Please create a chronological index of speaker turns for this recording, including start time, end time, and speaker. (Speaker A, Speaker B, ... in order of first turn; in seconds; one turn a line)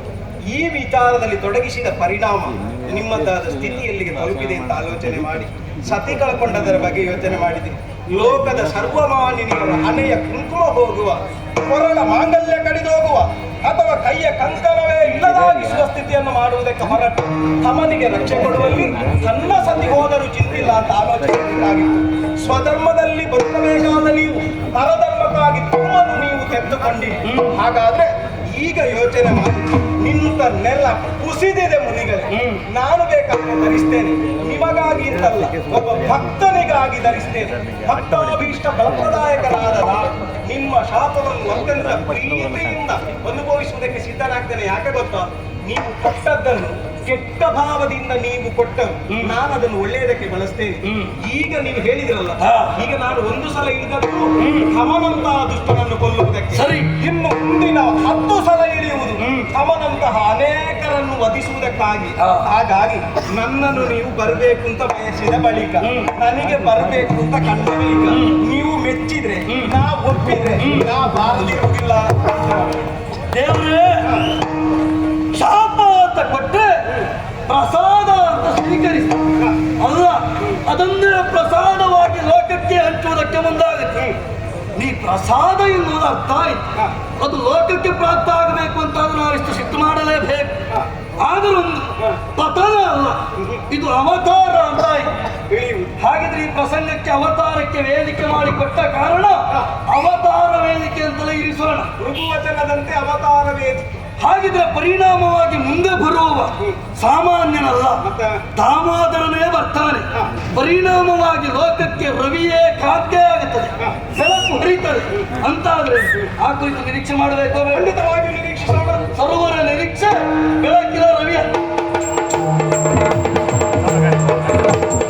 Speaker A: 0.5-73.0
Speaker B: 32.3-32.6
Speaker B: 50.9-51.1
Speaker B: 52.4-52.8
Speaker B: 54.4-54.7
Speaker B: 56.5-56.9
Speaker B: 62.2-62.5
Speaker B: 65.8-66.1
Speaker B: 73.3-74.4
Speaker B: 75.3-76.9
Speaker B: 77.5-84.1
Speaker B: 84.8-86.6
Speaker B: 87.2-90.7
Speaker B: 91.2-95.2
Speaker A: 93.4-93.6
Speaker A: 95.5-96.0
Speaker B: 96.0-101.9
Speaker A: 102.0-104.0
Speaker B: 104.2-108.0
Speaker A: 108.0-108.4
Speaker B: 108.5-117.9
Speaker A: 113.8-114.0
Speaker A: 117.7-119.1
Speaker B: 119.1-121.5